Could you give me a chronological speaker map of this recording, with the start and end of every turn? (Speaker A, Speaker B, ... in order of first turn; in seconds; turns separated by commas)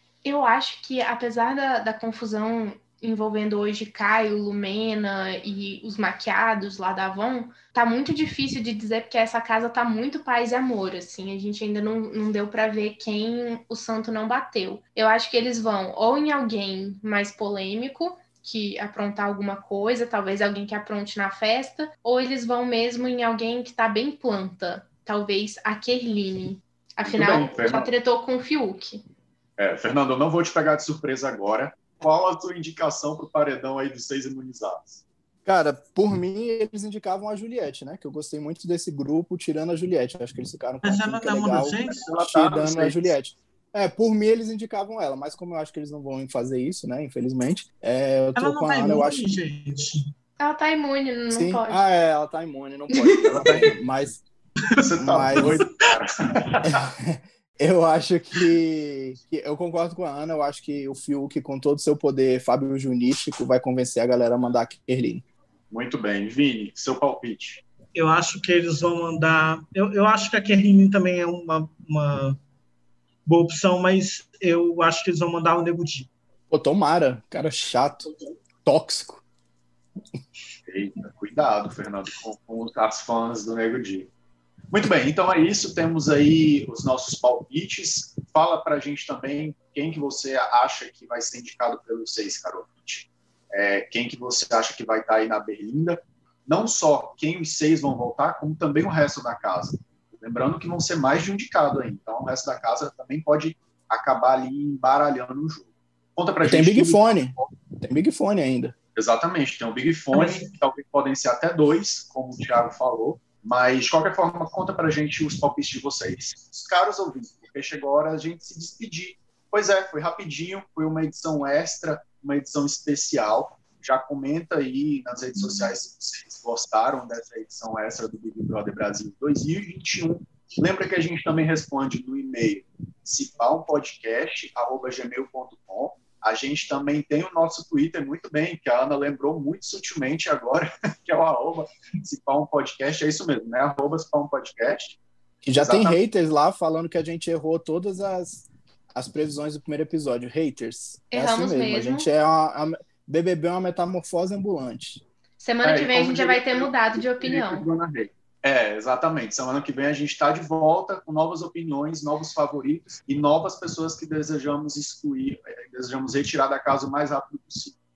Speaker A: 0.2-29.0, Speaker B: 27.0-27.9, Speaker B: 29.6-35.0, Speaker C: 35.5-49.3, Speaker D: 40.8-42.0, Speaker B: 42.0-43.1, Speaker D: 48.4-50.0, Speaker A: 50.4-51.8, Speaker C: 51.3-54.2, Speaker A: 52.9-53.6, Speaker B: 53.2-53.7, Speaker B: 54.8-56.8, Speaker C: 55.0-55.6, Speaker C: 56.6-65.2, Speaker B: 65.7-67.6, Speaker D: 67.9-72.4, Speaker D: 73.2-76.1, Speaker C: 76.5-78.1, Speaker C: 78.6-79.2, Speaker B: 80.7-84.1, Speaker B: 84.7-107.5, Speaker C: 106.4-108.7, Speaker B: 109.0-145.0, Speaker D: 110.1-110.5, Speaker C: 145.4-155.0, Speaker B: 145.5-146.0, Speaker A: 151.1-152.1, Speaker A: 155.4-157.6, Speaker B: 155.6-167.8